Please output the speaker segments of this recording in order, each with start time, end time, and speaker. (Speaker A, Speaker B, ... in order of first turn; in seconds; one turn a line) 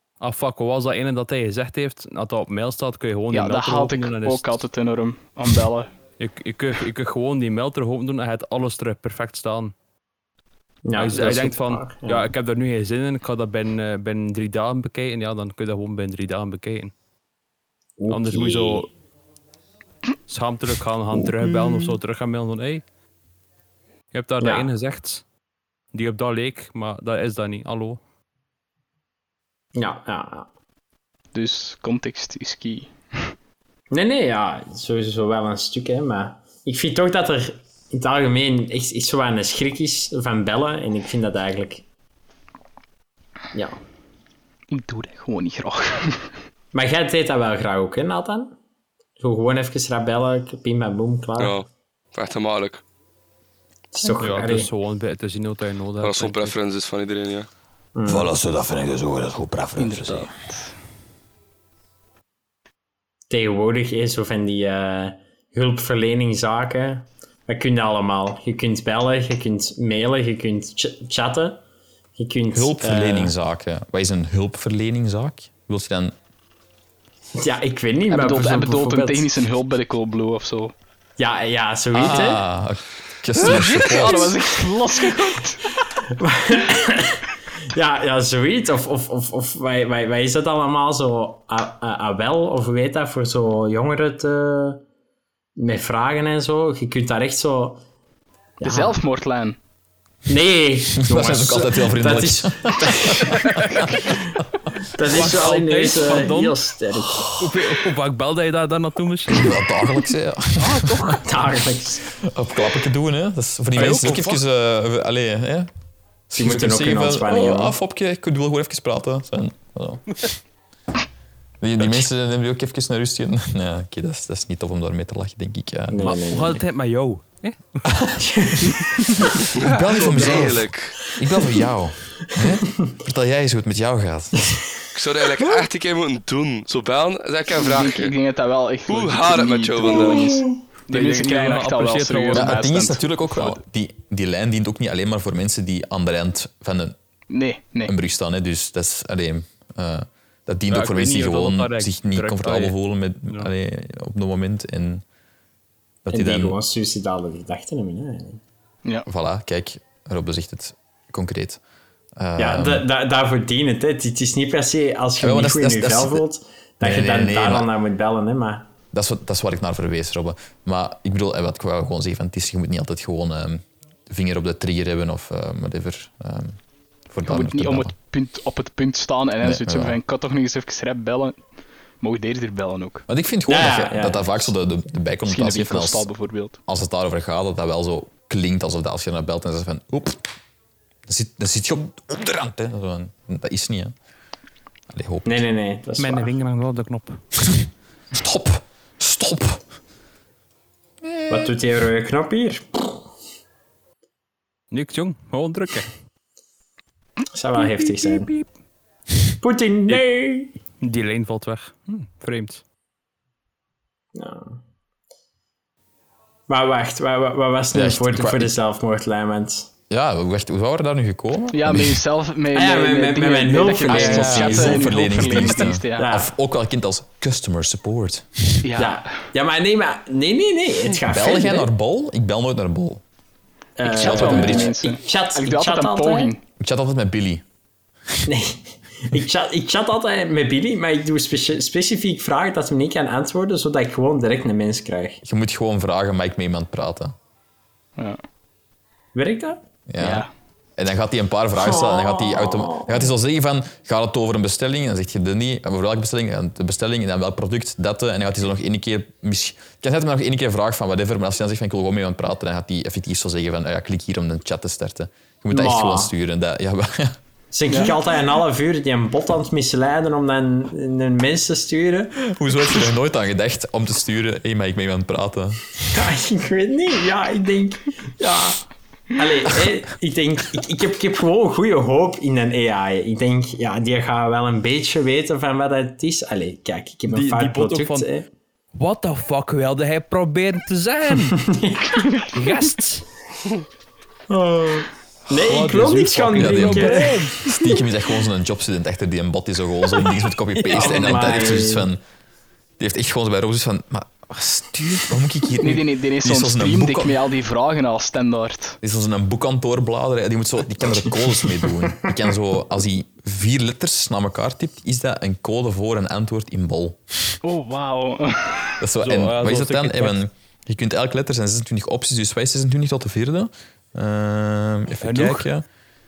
Speaker A: 0.2-4.6
Speaker B: 3.3-5.9
Speaker A: 6.2-9.7
Speaker C: 10.8-12.3
Speaker A: 10.9-16.9
Speaker C: 18.0-18.9
Speaker A: 18.1-18.9
Speaker A: 20.3-22.8
Speaker A: 24.1-25.2
Speaker C: 24.4-24.7
Speaker A: 25.9-28.0
Speaker C: 29.8-30.5
Speaker B: 31.3-33.3
Speaker C: 33.9-41.8
Speaker C: 43.5-43.8
Speaker B: 44.7-46.3
Speaker C: 46.7-48.5
Speaker C: 49.2-51.6
Speaker D: 51.4-52.8
Speaker C: 53.9-54.7
Speaker A: 54.2-56.5
Speaker D: 56.0-57.5
Speaker C: 58.0-58.3
Speaker E: 58.1-60.3
Speaker B: 59.8-60.7
Speaker C: 63.3-71.6
Speaker C: 72.2-73.3
Speaker F: 72.5-76.2
Speaker C: 77.4-79.4
Speaker B: 78.1-80.8
Speaker C: 81.2-82.4
Speaker F: 81.9-84.4
Speaker B: 83.3-85.8
Speaker C: 86.0-94.8
Speaker C: 95.6-97.8
Speaker B: 98.6-99.6
Speaker C: 98.6-99.0
Speaker C: 100.3-107.3
Speaker F: 101.0-104.0
Speaker A: 105.1-106.6
Speaker A: 107.4-109.6
Speaker F: 109.3-111.2
Speaker A: 110.6-111.2
Speaker C: 111.2-112.0
Speaker F: 112.1-115.7
Speaker A: 113.8-114.4
Speaker F: 116.3-120.4
Speaker C: 116.4-117.8
Speaker F: 121.6-126.2
Speaker C: 125.9-126.6
Speaker A: 126.0-127.9
Speaker C: 128.2-129.2
Speaker D: 129.6-130.9
Speaker F: 129.6-134.6
Speaker A: 129.8-130.6
Speaker D: 134.9-138.1
Speaker B: 137.6-143.6
Speaker D: 138.9-140.4
Speaker C: 140.1-140.6
Speaker A: 140.9-142.6
Speaker F: 142.3-147.0
Speaker B: 147.3-147.9
Speaker F: 147.9-155.0
Speaker A: 150.7-152.8
Speaker F: 156.1-156.6
Speaker C: 156.1-158.4
Speaker F: 159.1-161.6
Speaker F: 162.2-162.9
Speaker C: 162.4-168.7
Speaker F: 165.2-166.2
Speaker F: 166.8-167.7
Speaker F: 168.9-176.6
Speaker F: 177.1-177.9
Speaker B: 177.2-181.4
Speaker F: 179.4-180.0
Speaker B: 182.0-183.1
Speaker F: 183.1-186.1
Speaker C: 183.5-184.5
Speaker B: 185.3-186.6
Speaker F: 186.7-190.2
Speaker F: 191.1-193.9
Speaker F: 194.9-195.4
Speaker C: 195.3-196.3
Speaker A: 196.0-197.2
Speaker F: 198.1-199.6
Speaker F: 201.0-201.6
Speaker C: 201.3-203.0
Speaker A: 204.7-205.9
Speaker C: 207.3-208.3
Speaker A: 207.6-208.4
Speaker C: 209.4-210.5
Speaker A: 210.8-212.6
Speaker C: 214.2-214.6
Speaker C: 216.5-219.7
Speaker F: 217.7-218.6
Speaker F: 219.9-222.0
Speaker B: 221.5-226.1
Speaker C: 222.5-226.3
Speaker F: 223.9-228.6
Speaker B: 228.6-229.3
Speaker C: 228.8-231.7
Speaker F: 231.1-233.0
Speaker C: 233.8-236.3
Speaker B: 233.8-236.4
Speaker F: 233.9-234.7
Speaker F: 236.6-237.4
Speaker C: 238.3-245.2
Speaker F: 245.2-247.2
Speaker B: 248.0-248.2
Speaker C: 249.2-249.6
Speaker F: 249.9-267.2
Speaker B: 250.0-250.3
Speaker C: 251.6-253.1
Speaker C: 265.5-266.1
Speaker C: 267.5-272.2
Speaker B: 267.7-268.0
Speaker F: 272.2-275.7
Speaker C: 275.9-278.6
Speaker C: 279.2-288.3
Speaker A: 287.1-288.1
Speaker A: 288.8-291.5
Speaker C: 291.4-292.0
Speaker A: 292.3-293.1
Speaker C: 294.3-297.5
Speaker A: 295.4-297.6
Speaker F: 296.3-302.0
Speaker C: 300.6-301.9
Speaker F: 302.8-307.2
Speaker B: 305.6-308.8
Speaker F: 308.8-317.4
Speaker B: 317.4-318.8
Speaker F: 318.8-325.6
Speaker A: 319.0-320.2
Speaker A: 325.0-325.5